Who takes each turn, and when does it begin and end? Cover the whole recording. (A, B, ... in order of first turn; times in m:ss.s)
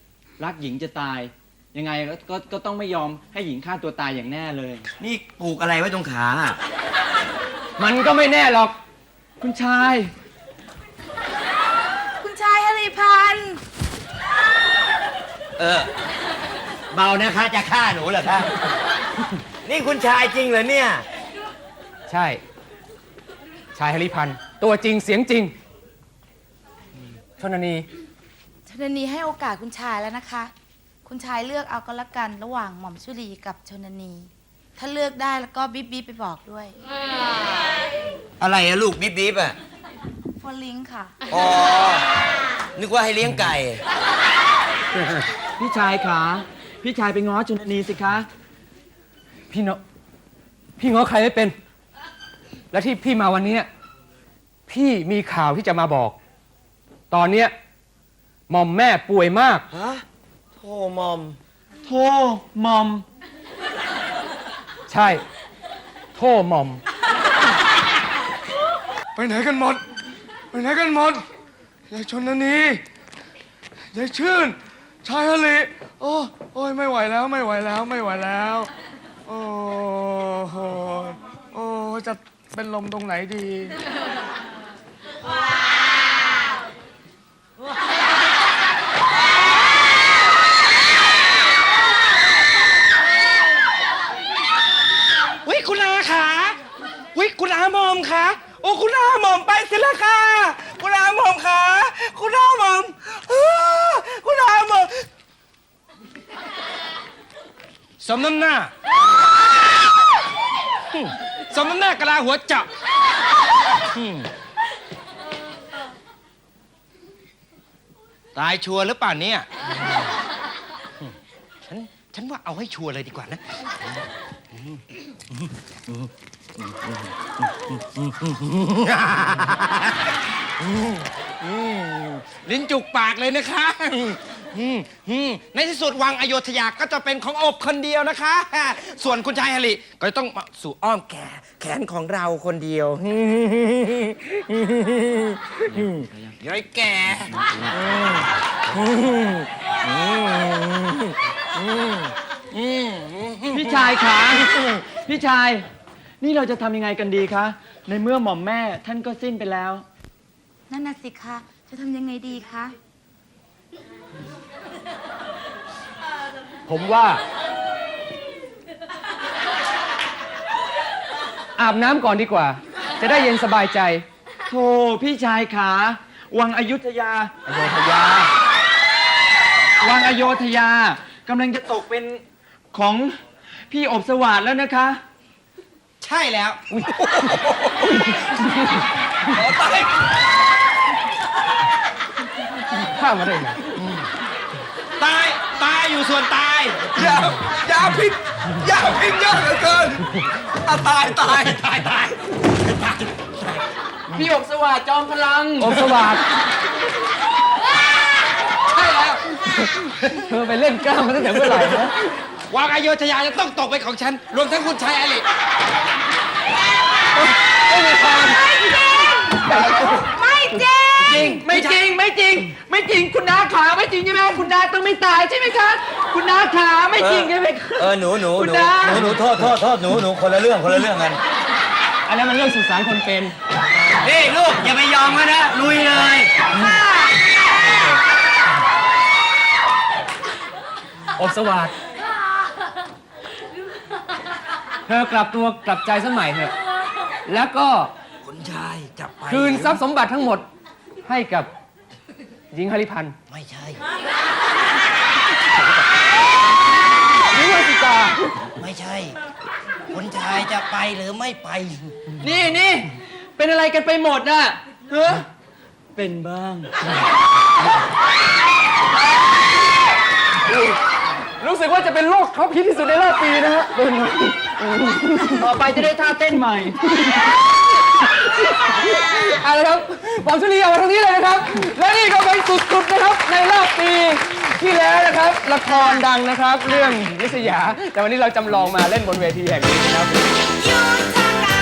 0:00.4-0:04.8 A
0:05.0-0:06.6 B
0:07.8-0:08.7 C
0:09.4-0:10.1 A
0:12.2-0:13.6 D
0:15.6-0:15.9 B
0:16.9-0:18.5 B
0:19.6-0:21.0 B
0:22.1-0:22.4 C
0:23.7-0:25.5 C
0:27.4-0:27.9 C
0:28.6-0:30.5 D
0:31.0-0:36.8 D
0:38.4-0:39.6 B
0:40.4-0:41.1 D
0:41.3-0:42.1 B
0:42.8-0:43.8 B
0:45.6-0:48.3 A
0:49.5-0:49.8 C
0:50.8-0:51.5 C
0:52.7-0:53.7 C
0:54.7-0:56.2 C
0:57.1-0:57.5 C
0:58.5-0:59.6 C
0:59.7-1:00.0 B
1:00.5-1:01.4 B
1:01.8-1:03.0 A
1:04.9-1:05.2 C
1:06.1-1:06.8 C
1:09.2-1:09.8 E
1:10.5-1:11.2 E
1:11.9-1:12.8 E
1:13.9-1:18.7 E
1:19.3-1:23.8 E
1:35.4-1:36.6 F
1:37.1-1:45.1 F
1:48.0-1:48.7 F
1:50.9-1:52.7 F
1:53.9-1:54.3 F
1:58.3-1:59.5 F
2:01.7-2:03.4 F
2:08.4-2:28.3 F
2:29.0-2:31.0 F
2:32.6-2:33.3 F
2:33.5-2:35.6 A
2:36.2-2:39.8 A
2:40.7-2:42.7 D
2:46.7-2:47.2 C
2:51.6-2:54.0 C
2:54.5-2:57.3 A
2:57.5-2:58.3 C
2:59.8-3:03.2 A
3:03.7-3:05.0 A
3:06.0-3:06.6 F
3:07.0-3:07.9 E
3:08.1-3:08.4 C
3:09.3-3:09.9 E
3:12.7-3:13.6 C
3:15.0-3:16.9 F
3:16.9-3:21.6 E
3:24.1-3:25.8 A
3:25.6-3:26.2 C
3:28.7-3:29.2 A
3:29.6-3:32.0 C
3:32.5-3:35.2 F
3:37.2-3:38.4 C
3:39.3-3:41.4 C
3:40.6-3:41.8 F
3:41.0-3:49.3 A
3:47.0-3:51.2 B
3:52.0-3:53.4 C
3:54.0-3:56.3 B
4:01.1-4:01.7 C
4:04.9-4:06.5 C
4:07.2-4:07.9 C
4:08.2-4:09.8 B
4:09.3-4:10.4 C
4:11.0-4:11.5 C
4:12.5-4:13.2 C
4:13.3-4:13.8 B
4:17.3-4:18.2 C
4:18.6-4:19.2 B
4:19.9-4:21.8 B
4:22.2-4:25.3 A
4:25.9-4:26.7 A
4:30.5-4:30.8 C
4:31.4-4:35.6 C
4:35.3-4:36.8 A
4:38.1-4:50.4 C